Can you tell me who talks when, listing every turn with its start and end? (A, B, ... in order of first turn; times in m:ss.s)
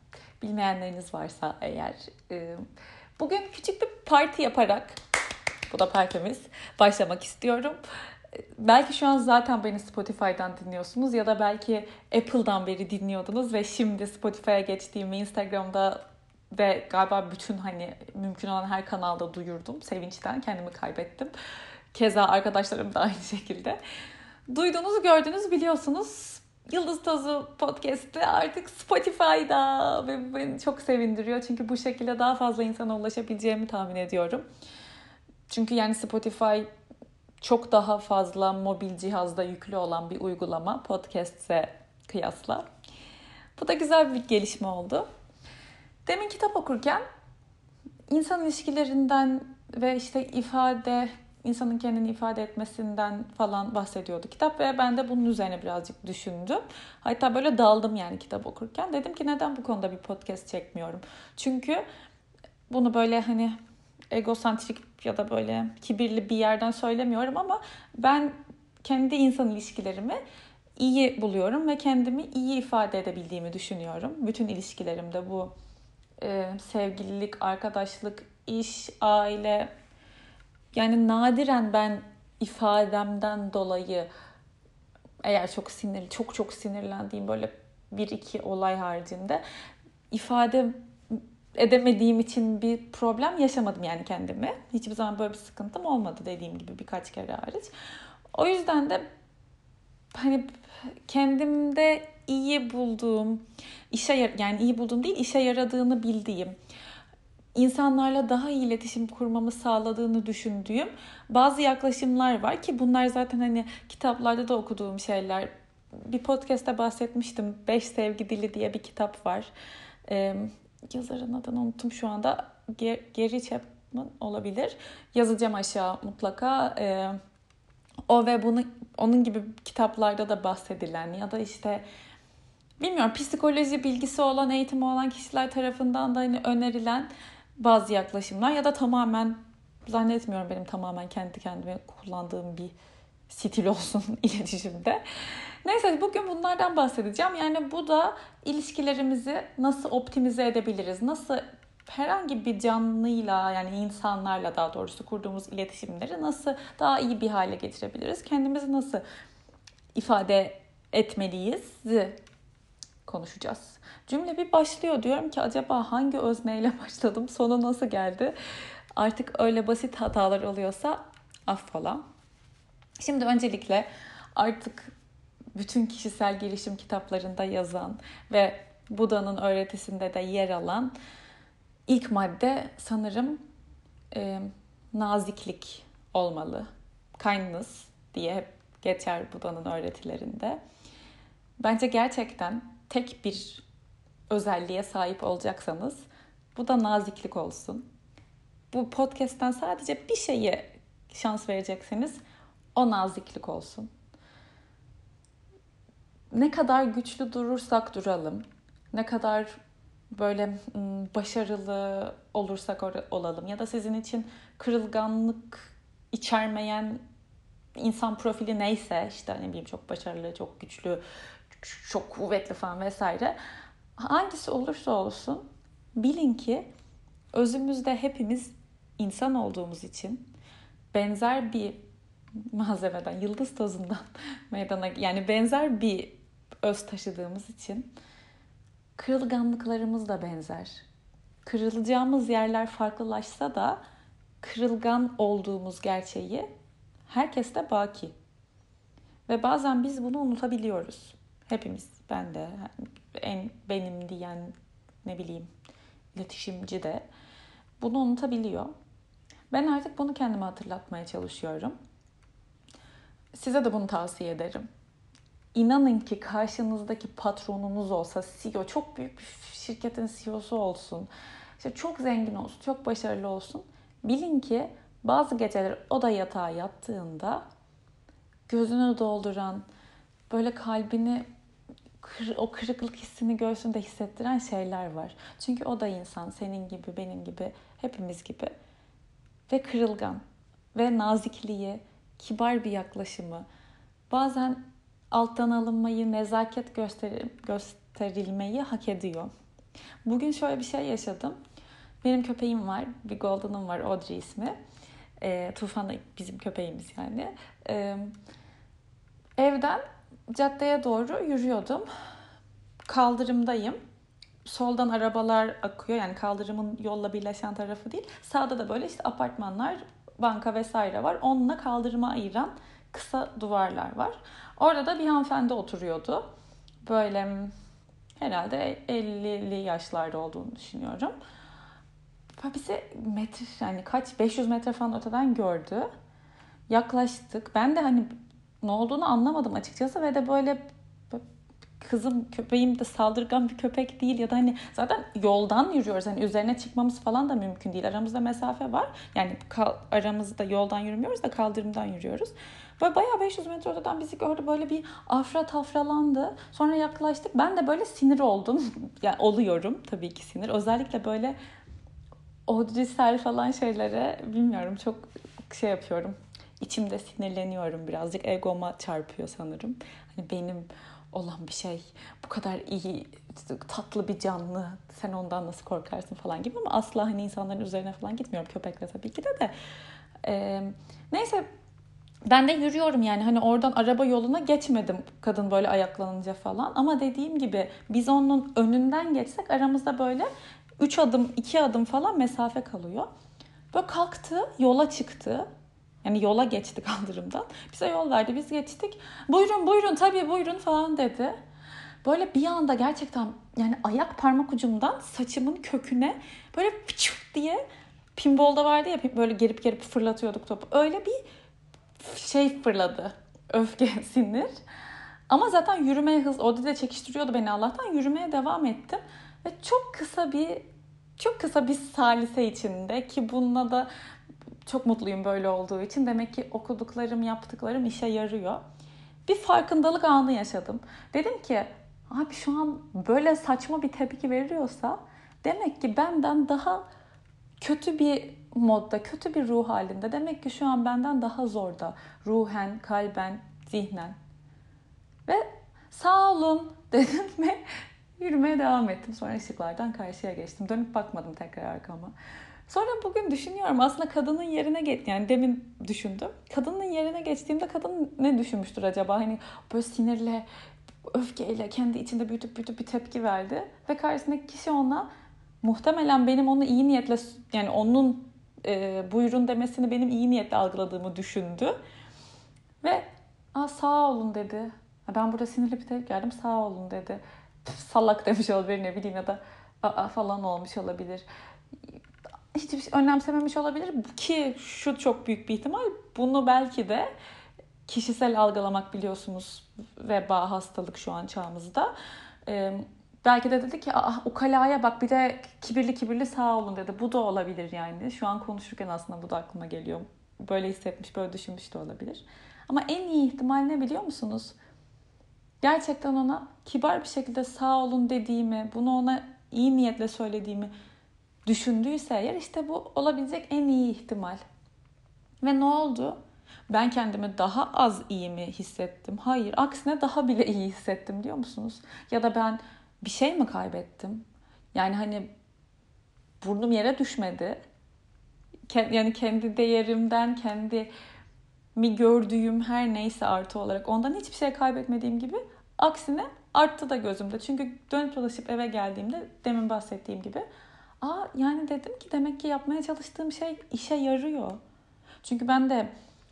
0:00.4-0:02.6 A
0:03.2-0:05.0 A
0:05.7-0:07.8 A
0:08.4-0:16.0 A
0:16.5-0:21.3 A
0:21.9-0:23.8 A
0:24.5-0:34.4 A
0:35.5-0:36.7 A
0:37.4-0:42.7 A
0:43.6-0:45.1 A
0:46.1-0:47.0 A
0:48.1-1:01.8 A
1:02.7-1:03.6 A
1:04.1-1:10.2 A
1:10.8-1:15.5 A
1:16.2-1:19.7 A
1:20.7-1:24.1 A
1:25.2-1:29.4 A
1:30.1-1:37.7 A
1:38.3-1:39.0 A
1:40.1-1:46.6 A
1:47.6-1:59.5 A
2:00.1-2:07.2 A
2:08.1-2:11.8 A
2:12.8-2:22.7 A
2:23.3-2:25.0 A
2:25.6-2:39.0 A
2:39.9-2:42.2 A
2:43.0-2:48.3 A
2:49.0-2:52.0 A
2:53.0-2:54.9 A
2:55.5-3:00.9 A
3:01.9-3:03.4 A
3:04.1-3:10.6 A
3:11.6-3:13.6 A
3:14.3-3:17.9 A
3:18.7-3:22.2 A
3:22.7-3:23.9 A
3:26.3-3:29.6 A
3:30.1-3:37.0 A
3:37.8-3:41.0 A
3:41.5-3:43.4 A
3:44.0-3:46.7 A
3:47.3-3:50.3 A
3:50.9-3:51.8 A
3:52.5-3:57.9 A
3:59.0-4:00.8 A
4:01.4-4:03.8 A
4:04.4-4:06.5 A
4:07.1-4:08.1 A
4:09.3-4:15.5 A
4:16.2-4:17.1 A
4:17.8-4:18.7 A
4:19.5-4:21.8 A
4:23.3-4:24.7 A
4:25.5-4:37.4 A
4:38.5-4:39.6 A
4:40.3-4:41.2 A
4:42.0-4:48.5 A
4:49.5-4:50.2 A
4:50.7-4:53.5 A
4:54.1-4:59.3 A
5:00.0-5:01.4 A
5:02.0-5:04.6 A
5:05.2-5:08.1 A
5:09.4-5:11.9 A
5:12.9-5:13.8 A
5:14.4-5:26.3 A
5:26.8-5:27.5 A
5:28.2-5:31.1 A
5:32.4-5:35.9 A
5:36.7-5:38.1 A
5:38.6-5:41.2 A
5:41.8-6:01.4 A
6:02.5-6:19.5 A
6:20.2-6:21.5 A
6:22.2-6:30.3 A
6:30.8-6:33.1 A
6:33.7-6:35.5 A
6:36.0-6:41.4 A
6:42.0-6:47.6 A
6:48.2-6:51.2 A
6:52.0-6:54.5 A
6:55.3-7:00.7 A
7:01.2-7:03.9 A
7:04.7-7:08.6 A
7:09.3-7:16.9 A
7:17.6-7:24.2 A
7:25.3-7:27.6 A
7:28.2-7:32.1 A
7:32.7-7:40.5 A
7:41.1-7:45.1 A
7:45.6-7:51.8 A
7:52.8-8:01.2 A
8:02.5-8:07.1 A
8:07.9-8:11.9 A
8:12.5-8:24.6 A
8:25.6-8:30.7 A
8:31.5-8:34.4 A
8:35.4-8:45.3 A
8:46.4-8:47.6 A
8:48.7-8:50.9 A
8:51.8-9:00.4 A
9:01.0-9:04.6 A
9:05.2-9:05.9 A